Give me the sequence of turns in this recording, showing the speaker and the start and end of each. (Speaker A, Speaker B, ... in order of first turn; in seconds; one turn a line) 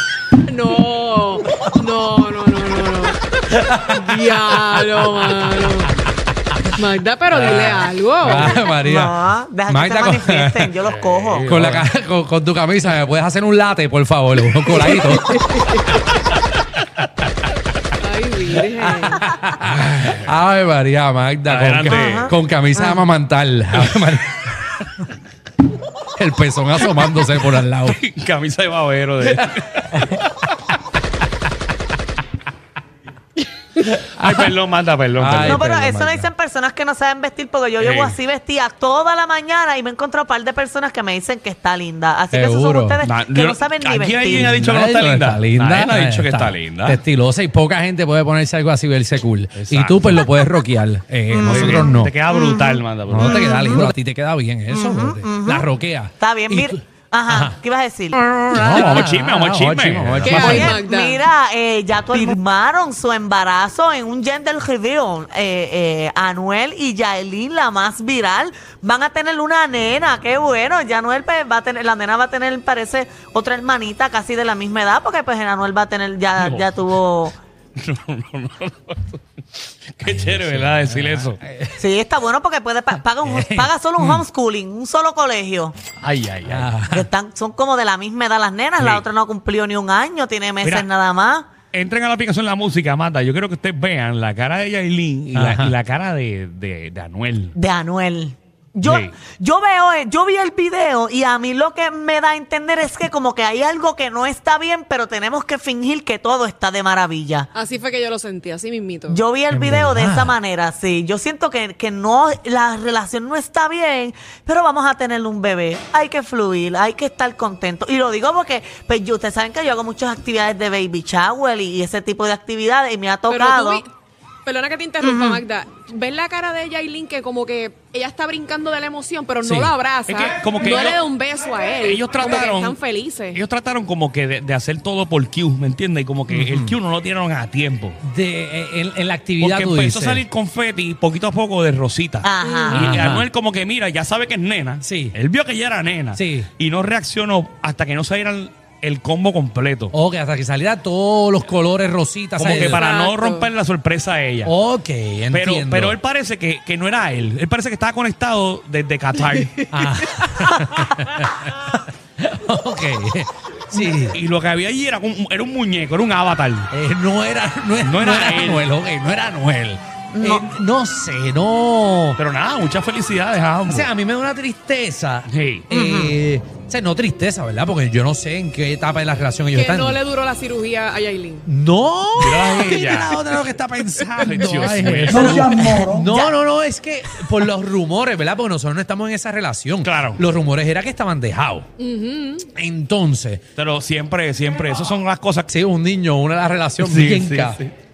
Speaker A: 0.5-5.9
Speaker B: 3.6-4.1
Speaker A: 6.8-8.7
Speaker B: 7.3-9.2
Speaker C: 8.5-11.5
Speaker B: 9.7-10.7
Speaker D: 10.8-11.9
Speaker B: 11.4-15.7
Speaker A: 14.9-15.8
Speaker A: 18.0-19.2
Speaker B: 18.8-24.4
Speaker D: 19.8-20.3
Speaker D: 21.5-22.3
Speaker C: 21.9-22.3
Speaker B: 26.2-28.0
Speaker D: 27.4-30.2
Speaker D: 33.8-35.6
Speaker B: 35.2-36.3
Speaker C: 35.4-44.6
Speaker D: 37.8-38.2
Speaker B: 42.3-43.0
Speaker D: 43.0-47.0
Speaker B: 44.3-52.2
Speaker D: 49.6-50.3
Speaker C: 51.3-53.9
Speaker D: 51.4-53.5
Speaker B: 53.1-56.8
Speaker C: 54.7-55.7
Speaker C: 56.2-58.2
Speaker B: 57.3-57.6
Speaker B: 58.1-60.8
Speaker D: 58.5-60.6
Speaker A: 60.2-61.2
Speaker C: 60.3-77.4
Speaker D: 76.4-76.9
Speaker D: 77.8-81.4
Speaker B: 80.0-81.8
Speaker C: 81.8-85.8
Speaker B: 83.2-84.2
Speaker D: 86.0-86.7
Speaker B: 86.5-87.1
Speaker C: 86.9-91.5
Speaker D: 88.8-89.0
Speaker D: 90.6-90.9
Speaker D: 91.7-97.5
Speaker B: 95.3-95.7
Speaker C: 97.5-107.5
Speaker D: 98.8-99.2
Speaker A: 107.5-109.2
Speaker C: 109.1-123.8
Speaker B: 109.5-110.3
Speaker A: 123.3-123.9
Speaker A: 124.5-133.4
Speaker C: 125.0-125.4
Speaker B: 129.4-129.7
Speaker D: 130.1-131.0
Speaker D: 131.8-132.8
Speaker D: 133.3-138.0
Speaker B: 136.3-136.8
Speaker B: 138.0-140.2
Speaker D: 139.4-149.9
Speaker C: 142.2-142.9
Speaker A: 142.4-142.9
Speaker B: 142.7-143.3
Speaker B: 144.8-145.2
Speaker B: 146.1-146.5
Speaker B: 149.9-152.8
Speaker D: 152.4-154.5
Speaker A: 152.8-153.5
Speaker B: 154.4-156.0
Speaker D: 155.3-159.7
Speaker B: 159.7-164.2
Speaker D: 164.1-166.7
Speaker B: 166.7-172.2
Speaker D: 167.8-168.7
Speaker C: 170.1-170.5
Speaker D: 172.2-173.9
Speaker B: 173.7-180.0
Speaker D: 175.3-175.7
Speaker C: 175.7-176.2
Speaker A: 179.5-181.5
Speaker B: 181.5-191.7
Speaker D: 182.2-183.2
Speaker D: 184.2-185.5
Speaker C: 185.1-186.3
Speaker D: 189.8-190.2
Speaker A: 191.8-192.5
Speaker B: 192.5-193.4
Speaker D: 193.6-195.5
Speaker B: 195.5-197.6
Speaker D: 196.8-197.7